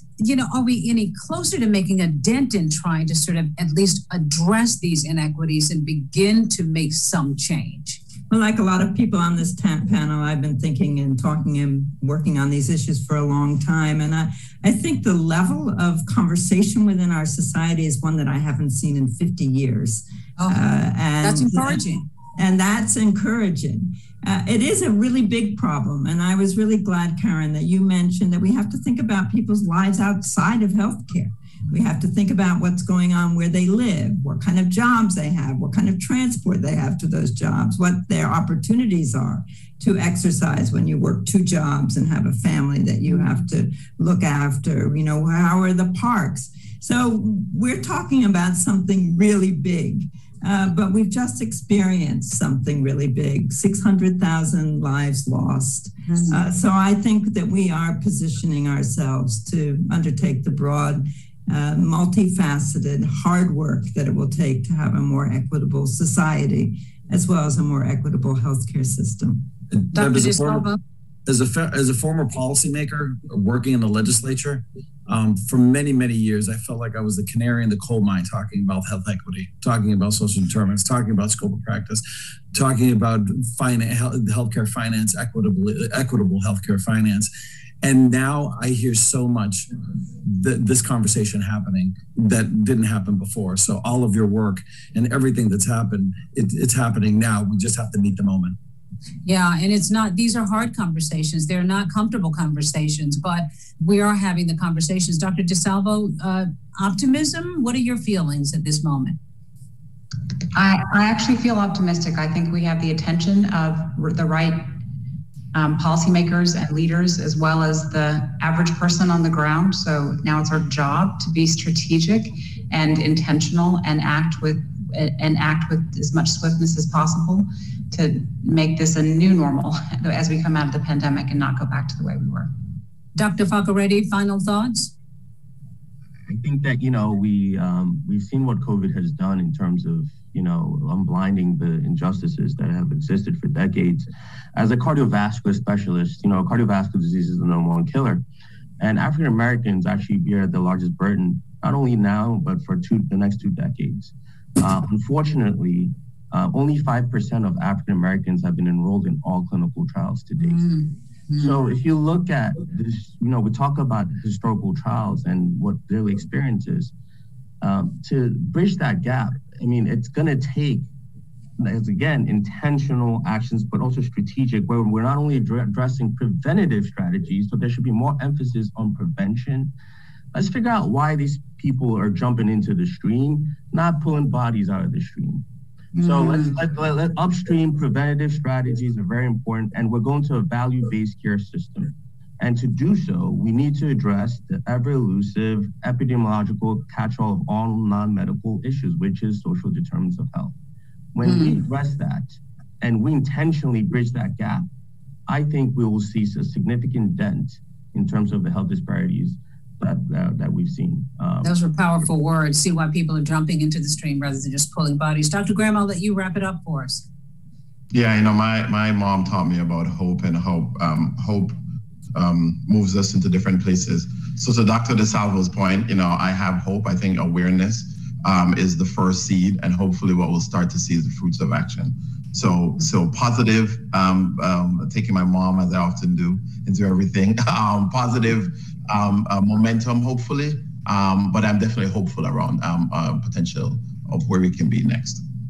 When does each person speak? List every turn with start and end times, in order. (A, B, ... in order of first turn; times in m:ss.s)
0:00.2-0:08.0 A
0:08.3-0:21.8 B
0:21.2-0:22.0 A
0:22.4-1:09.5 B
0:56.0-0:56.4 A
1:09.7-1:10.7 C
1:09.9-1:10.8 A
1:11.2-1:27.3 C
1:27.8-1:29.7 C
1:30.2-1:38.6 C
1:39.2-1:49.2 A
1:50.5-1:54.7 D
1:55.5-2:12.5 D
2:13.2-2:14.9 A
2:16.3-2:28.2 E
2:28.8-2:40.6 E
2:40.4-2:41.6 A
2:41.4-2:46.9 E
2:47.6-2:50.9 E
2:51.6-2:59.7 E
3:00.3-3:05.4 E
3:05.9-3:06.6 A
3:06.0-3:20.5 E
3:21.1-3:24.6 E
3:21.2-3:21.6 A
3:25.3-3:31.5 E
3:31.4-3:37.0 A
3:37.9-3:41.6 F
3:42.1-4:05.2 F